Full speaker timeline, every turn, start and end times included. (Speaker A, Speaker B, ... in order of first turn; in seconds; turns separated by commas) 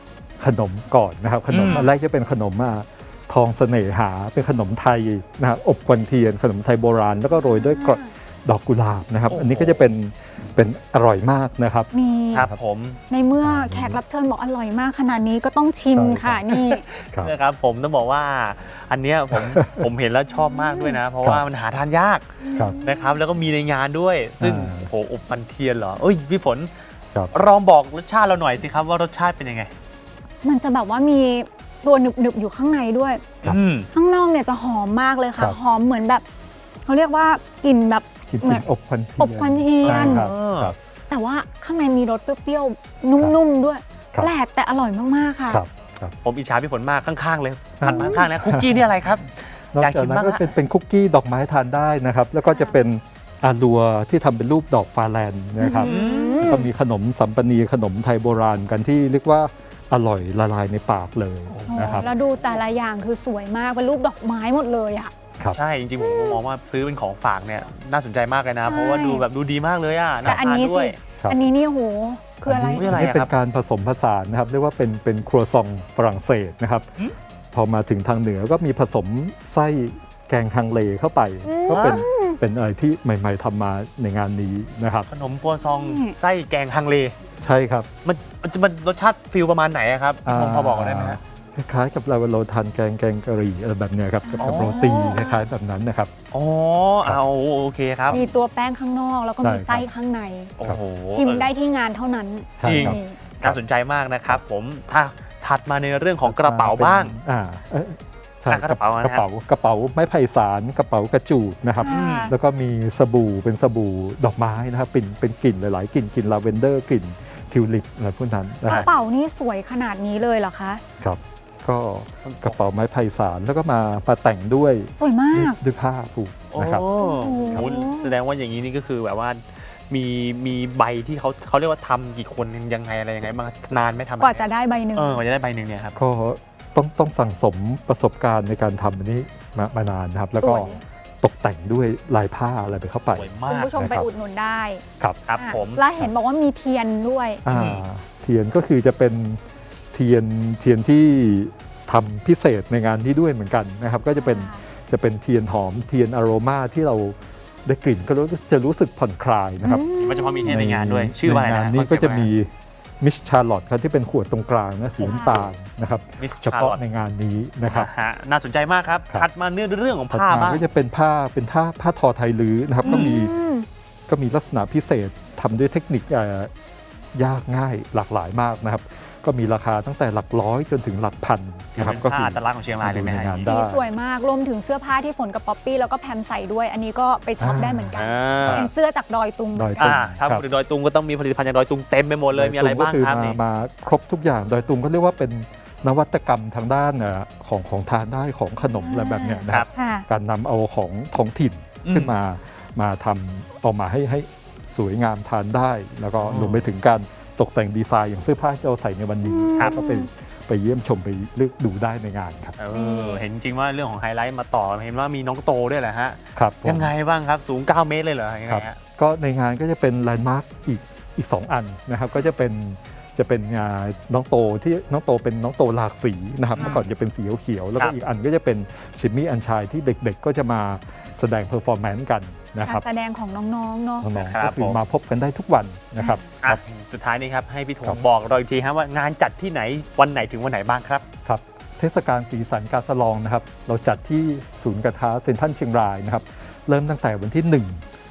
Speaker A: 0.4-12.6, Speaker B: 1.5-1.9, Speaker C: 7.3-8.1, Speaker B: 9.3-9.9, Speaker C: 11.9-12.5, Speaker B: 12.3-13.0, Speaker C: 13.1-16.8, Speaker A: 13.4-14.0, Speaker A: 15.9-16.4, Speaker B: 16.5-22.2, Speaker A: 19.3-19.9, Speaker C: 20.3-21.0, Speaker C: 22.4-23.2, Speaker B: 22.8-26.7, Speaker A: 24.4-24.9, Speaker B: 27.3-29.7, Speaker C: 30.4-33.3, Speaker B: 33.4-33.9, Speaker C: 33.9-36.2, Speaker C: 36.9-38.6, Speaker A: 38.3-40.8, Speaker C: 39.2-40.3, Speaker B: 39.8-40.7, Speaker C: 41.1-45.6, Speaker A: 45.5-46.1, Speaker B: 46.2-50.5, Speaker A: 47.8-62.1, Speaker C: 47.8-48.2, Speaker C: 52.5-52.8, Speaker C: 55.6-56.7, Speaker B: 55.8-56.7, Speaker B: 61.5-62.5, Speaker C: 61.7-65.1, Speaker B: 65.5-71.0, Speaker C: 66.0-66.4, Speaker C: 68.7-69.3, Speaker C: 70.2-73.0, Speaker A: 72.5-76.9, Speaker B: 72.7-73.3, Speaker A: 77.5-85.1, Speaker B: 81.7-82.0, Speaker C: 81.7-82.4, Speaker B: 85.1-87.1, Speaker C: 85.7-86.2, Speaker A: 87.4-87.9, Speaker B: 88.0-91.2, Speaker A: 90.2-96.1, Speaker C: 94.2-95.5, Speaker B: 94.4-95.1, Speaker B: 96.3-98.2, Speaker A: 98.1-98.3, Speaker C: 98.1-100.5, Speaker A: 99.4-99.9, Speaker B: 100.6-101.5, Speaker C: 101.1-103.2, Speaker A: 102.6-103.6, Speaker B: 102.6-107.2, Speaker A: 106.2-118.9, Speaker B: 108.5-109.2, Speaker C: 111.8-112.3, Speaker B: 111.9-112.3, Speaker C: 118.7-120.8, Speaker A: 121.0-126.8, Speaker B: 122.2-122.6, Speaker C: 125.0-125.6, Speaker B: 126.5-136.0, Speaker C: 127.0-128.2, Speaker C: 134.2-135.2, Speaker A: 135.9-144.1, Speaker C: 140.3-140.8, Speaker B: 143.1-143.8, Speaker C: 143.5-144.8, Speaker B: 145.3-145.8, Speaker C: 145.4-147.4, Speaker A: 147.4-149.4, Speaker B: 147.5-147.8, Speaker A: 149.9-159.9, Speaker C: 154.2-154.6, Speaker C: 159.6-160.6, Speaker B: 160.0-162.3, Speaker A: 160.5-167.9, Speaker C: 165.0-165.5, Speaker B: 165.1-165.5, Speaker B: 166.2-166.8, Speaker B: 167.7-170.6, Speaker A: 170.1-173.3, Speaker C: 172.8-173.7, Speaker B: 172.9-173.1, Speaker A: 174.1-176.5, Speaker A: 177.2-183.8, Speaker B: 181.8-183.5, Speaker C: 183.4-190.0, Speaker A: 187.4-188.7, Speaker B: 188.0-188.7, Speaker A: 189.5-190.4, Speaker B: 189.8-193.4, Speaker A: 192.3-212.6, Speaker C: 198.8-200.1, Speaker B: 201.8-202.2, Speaker B: 206.2-206.7, Speaker C: 209.3-210.1, Speaker B: 212.6-218.8, Speaker C: 212.7-213.2, Speaker A: 216.3-216.9, Speaker A: 218.5-232.9, Speaker B: 226.6-226.9, Speaker C: 232.6-234.1, Speaker A: 234.0-236.6, Speaker B: 234.2-234.8, Speaker C: 236.0-236.3, Speaker B: 236.4-241.0, Speaker A: 241.2-247.8